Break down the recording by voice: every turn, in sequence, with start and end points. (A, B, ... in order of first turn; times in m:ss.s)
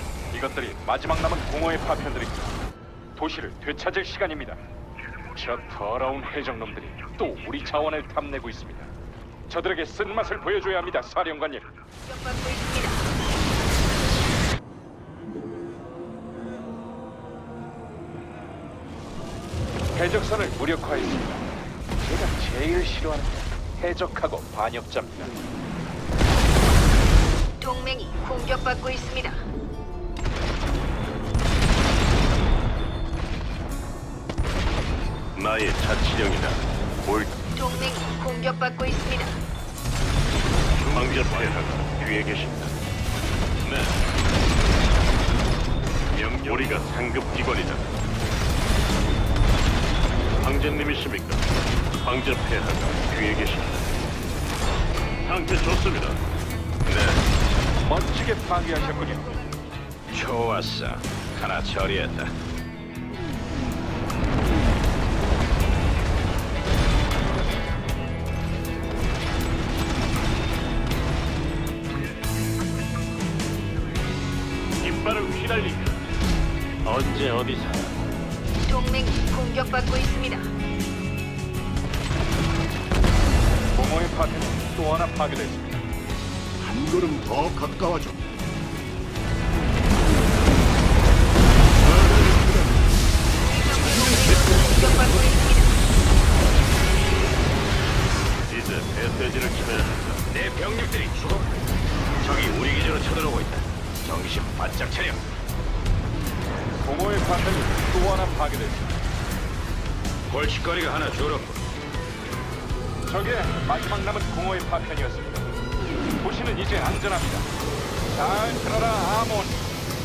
0:00.3-0:02.6 A
0:03.1-0:04.6 A
0:05.3-0:08.9 A
0:09.5-0:11.7 A
0:12.0-0:13.1 B
0:19.9-0:21.4 A
0:22.0-0:25.3 A
0:27.6-0:29.4 B
0:35.3-0:37.5 C
0:37.6-0:39.4 B
0:40.8-0:42.8 C
0:40.9-0:41.5 D
0:43.6-0:44.0 C
0:46.1-0:47.9 C
0:50.4-0:53.9 C
0:55.2-0:56.2 C
0:56.8-0:57.2 C
0:57.8-0:59.3 A
0:58.8-0:59.7 B
1:00.1-1:02.3 D
1:14.8-1:16.0 C
1:16.8-1:18.0 C
1:18.7-1:20.5 B
1:23.7-1:25.8 A
1:26.6-1:28.3 E
1:31.8-1:32.8 E
1:33.4-1:35.7 B
1:33.7-1:35.4 E
1:38.5-1:40.3 C
1:40.3-1:41.5 D
1:42.2-1:45.2 D
1:46.8-1:49.0 A
1:50.3-1:51.6 D
1:53.1-1:55.5 A
1:56.2-1:57.5 A
1:58.1-1:59.6 A